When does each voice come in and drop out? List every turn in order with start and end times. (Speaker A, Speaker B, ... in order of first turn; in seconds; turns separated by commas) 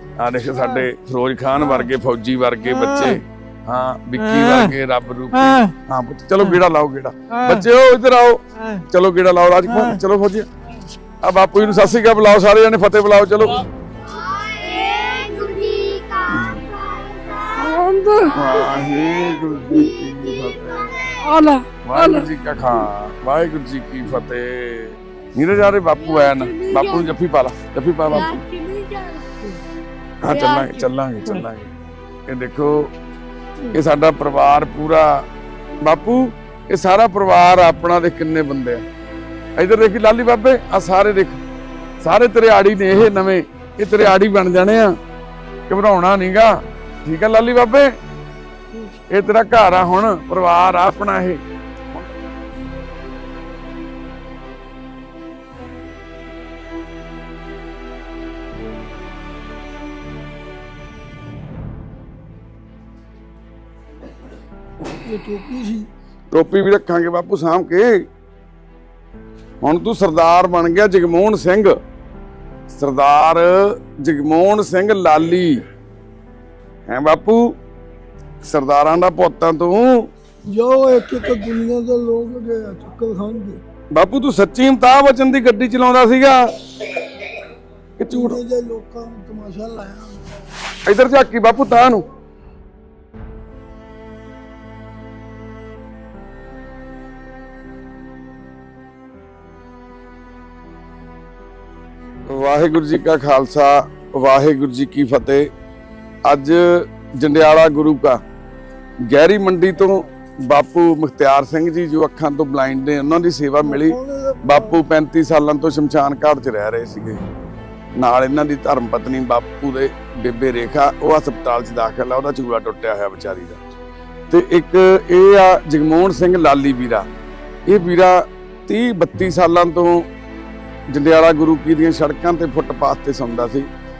Speaker A: 0.1-10.5, Speaker B: 0.5-0.8, Speaker B: 2.6-3.2, Speaker B: 4.4-4.7, Speaker B: 5.3-5.7, Speaker B: 7.3-7.7, Speaker B: 9.7-10.0, Speaker A: 11.2-13.6, Speaker C: 14.0-21.3, Speaker A: 16.3-16.6, Speaker B: 17.6-18.8, Speaker A: 18.3-21.0, Speaker B: 21.2-22.3, Speaker A: 21.8-28.4, Speaker B: 26.1-27.1, Speaker B: 28.1-29.6, Speaker C: 28.4-29.2, Speaker A: 30.2-31.7, Speaker C: 30.3-30.7, Speaker A: 32.3-32.9, Speaker A: 33.7-35.2, Speaker A: 35.8-38.8, Speaker A: 39.6-41.4, Speaker A: 42.0-45.0, Speaker A: 45.7-48.0, Speaker A: 49.1-52.1, Speaker B: 65.0-65.9, Speaker A: 66.3-68.1, Speaker A: 69.6-71.7, Speaker A: 72.7-75.6, Speaker A: 76.9-77.6, Speaker A: 78.4-80.1, Speaker B: 80.5-83.6, Speaker A: 83.9-86.5, Speaker A: 88.0-88.4, Speaker B: 88.1-90.2, Speaker A: 90.8-92.0, Speaker A: 102.3-105.5, Speaker A: 106.2-108.2, Speaker A: 109.1-117.2, Speaker B: 113.6-114.8, Speaker A: 118.0-123.6, Speaker A: 124.3-127.1, Speaker A: 127.7-130.1, Speaker A: 130.9-133.7